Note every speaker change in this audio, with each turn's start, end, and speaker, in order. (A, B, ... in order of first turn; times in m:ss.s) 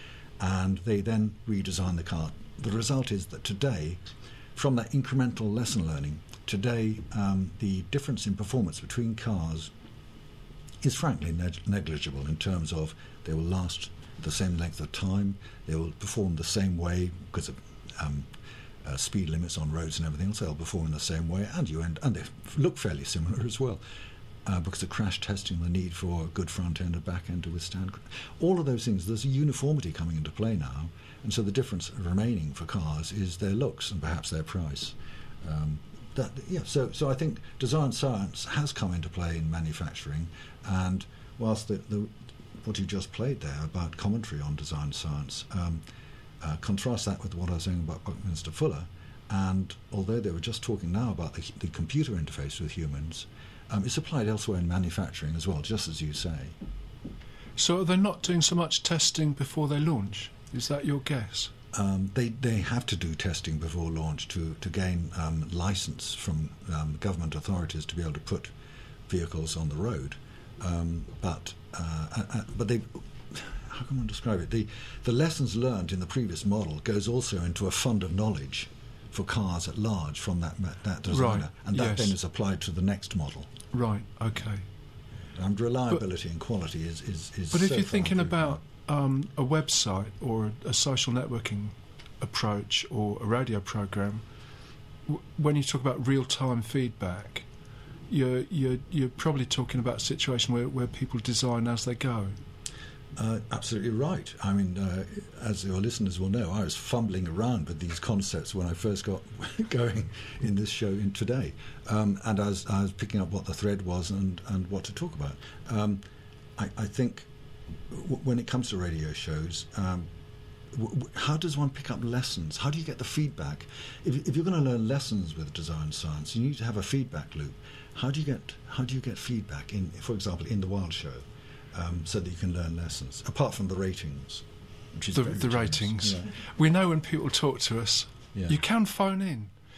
0:00.4-0:04.0 A
0:04.5-0:09.7 A
0:10.8-0:18.3 A
0:18.8-0:23.8 A
0:24.4-0:45.8 A
0:46.4-0:56.5 A
0:57.6-1:01.5 B
1:01.7-1:08.5 A
1:09.1-1:23.5 A
1:21.1-1:22.1 B
1:23.7-1:24.6 B
1:25.3-1:28.6 A
1:27.5-1:34.2 B
1:35.1-1:37.4 B
1:38.1-1:42.3 B
1:43.2-1:56.0 A
1:56.6-1:57.3 A
1:57.9-2:00.1 A
2:00.7-2:16.3 A
2:15.1-2:19.5 B
2:18.3-2:18.6 A